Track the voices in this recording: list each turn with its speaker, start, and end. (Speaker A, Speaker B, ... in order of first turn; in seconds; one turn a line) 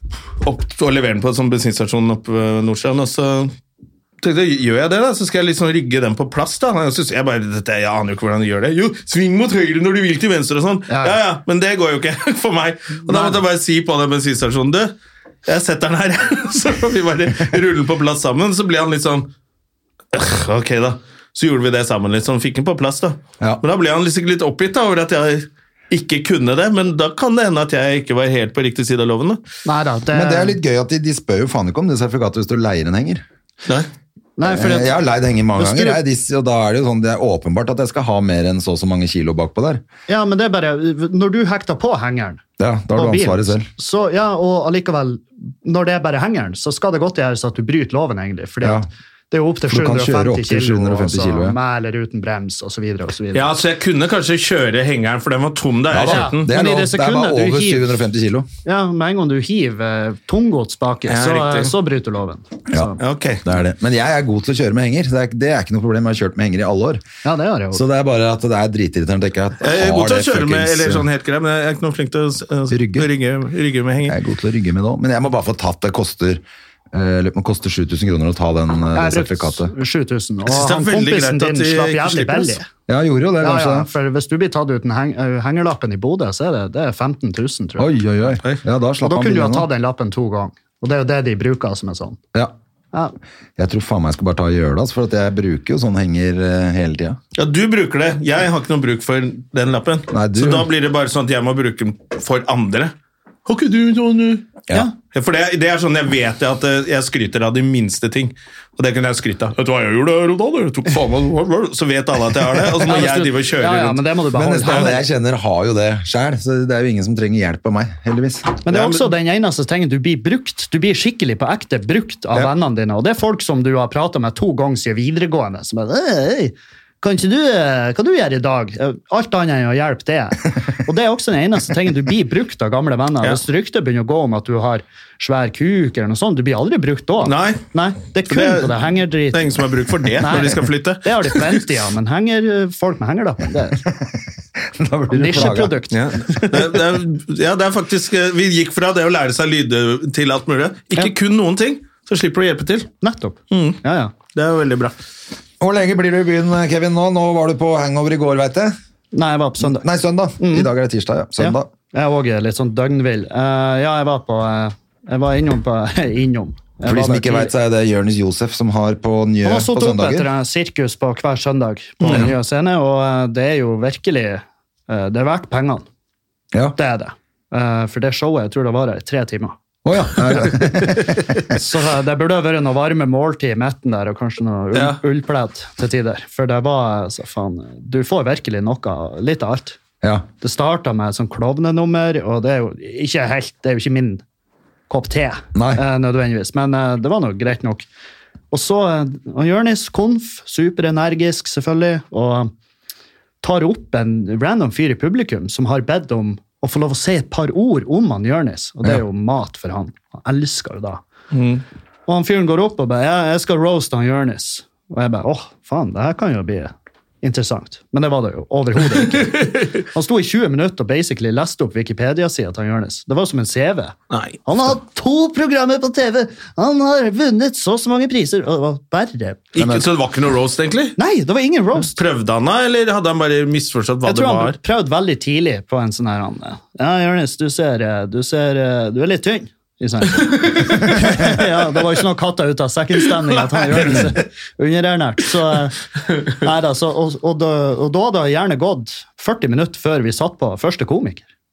Speaker A: 0.4-3.5
Speaker A: 4.2-14.9
Speaker B: 10.9-11.2
Speaker B: 13.1-13.4
Speaker A: 15.5-19.3
Speaker A: 20.1-29.4
Speaker B: 29.6-30.6
Speaker C: 30.1-33.2
Speaker B: 34.4-35.0
Speaker C: 34.4-39.8
Speaker B: 35.6-36.0
Speaker B: 40.1-53.5
Speaker C: 42.6-43.7
Speaker C: 48.6-48.9
Speaker C: 49.7-51.6
Speaker A: 53.3-56.5
Speaker C: 55.9-58.5
Speaker B: 56.1-58.0
Speaker B: 58.6-63.0
Speaker A: 61.1-61.7
Speaker A: 63.0-63.4
Speaker C: 63.4-67.0
Speaker B: 67.2-67.8
Speaker C: 67.7-71.1
Speaker A: 69.6-74.2
Speaker C: 72.7-73.1
Speaker C: 74.1-79.7
Speaker B: 78.9-82.7
Speaker A: 80.5-82.6
Speaker C: 82.9-83.9
Speaker B: 83.4-87.9
Speaker C: 87.8-89.7
Speaker B: 89.0-92.2
Speaker C: 93.6-97.2
Speaker A: 97.3-102.9
Speaker C: 100.1-100.7
Speaker A: 103.5-104.5
Speaker A: 105.1-114.0
Speaker B: 112.8-115.0
Speaker C: 114.3-118.5
Speaker B: 118.7-139.5
Speaker A: 118.7-119.0
Speaker A: 137.2-137.7
Speaker A: 138.3-141.6
Speaker B: 140.2-143.8
Speaker C: 143.9-145.8
Speaker B: 145.1-146.5
Speaker A: 145.9-152.9
Speaker B: 153.0-154.1
Speaker A: 153.5-153.8
Speaker A: 154.3-154.9
Speaker C: 155.6-158.8
Speaker B: 159.1-159.9
Speaker C: 159.6-161.7
Speaker B: 160.4-160.7
Speaker B: 161.4-167.5
Speaker C: 166.8-170.3
Speaker B: 169.4-175.8
Speaker A: 172.0-172.3
Speaker B: 176.8-179.6
Speaker C: 179.8-181.2
Speaker B: 181.5-189.8
Speaker A: 184.7-185.0
Speaker B: 190.4-194.2
Speaker B: 194.9-197.9
Speaker C: 195.6-195.8
Speaker B: 198.5-202.5
Speaker B: 203.4-211.0
Speaker A: 211.3-211.6
Speaker B: 212.1-229.5
Speaker A: 219.2-219.5
Speaker A: 224.1-224.4
Speaker A: 229.6-231.0
Speaker C: 229.6-229.8
Speaker B: 231.0-232.0
Speaker A: 231.9-234.6
Speaker B: 234.1-251.3
Speaker A: 240.5-240.9